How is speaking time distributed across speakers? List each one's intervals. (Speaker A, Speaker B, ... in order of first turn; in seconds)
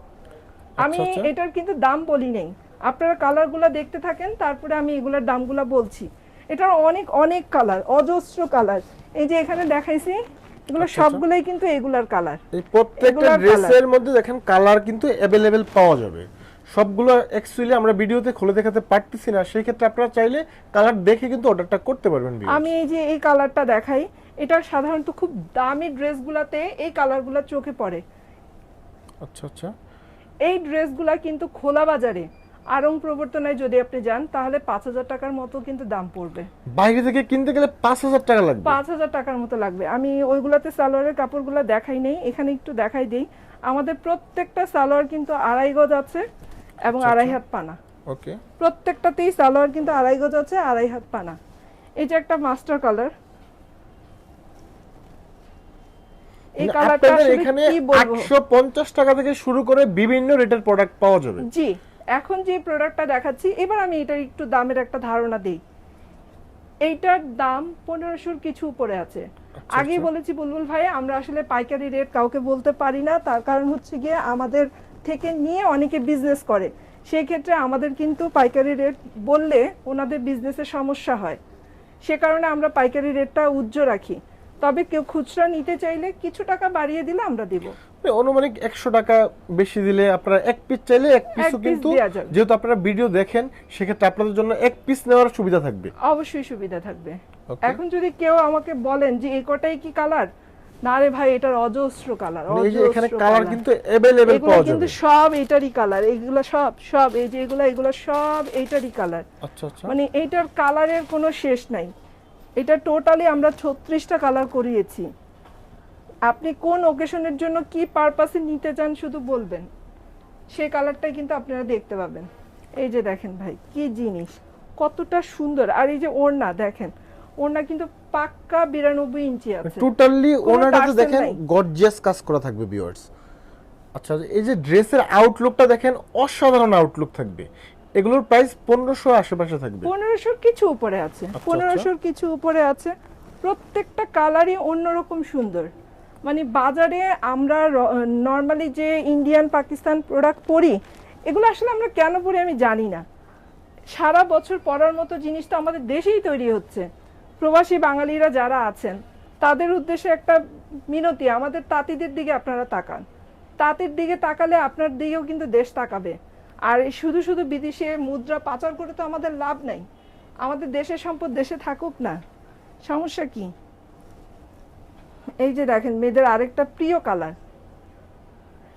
Speaker A: 0.8-1.3, 10.8-11.2, 12.5-22.7, 29.2-29.7, 36.7-38.8, 46.9-47.4, 48.1-48.4, 56.6-61.5, 69.7-70.1, 88.0-95.9, 97.5-97.8, 102.5-105.0, 109.4-109.9, 129.6-133.1, 133.9-137.5, 138.0-139.9, 141.3-141.9
Speaker B: 0.8-12.4, 13.0-13.8, 22.5-28.0, 30.4-36.5, 38.6-46.2, 46.8-47.8, 48.6-51.4, 52.0-53.1, 56.6-58.3, 61.4-65.6, 66.8-81.4, 82.0-87.8, 91.3-92.3, 96.0-100.3, 100.8-103.6, 104.3-109.2, 109.9-111.9, 112.6-115.1, 116.2-119.7, 120.5-129.9, 130.4-131.4, 139.8-145.7, 146.2-153.0, 153.9-156.9, 157.4-163.0, 163.6-169.8, 170.4-172.2, 172.8-173.5, 175.4-177.3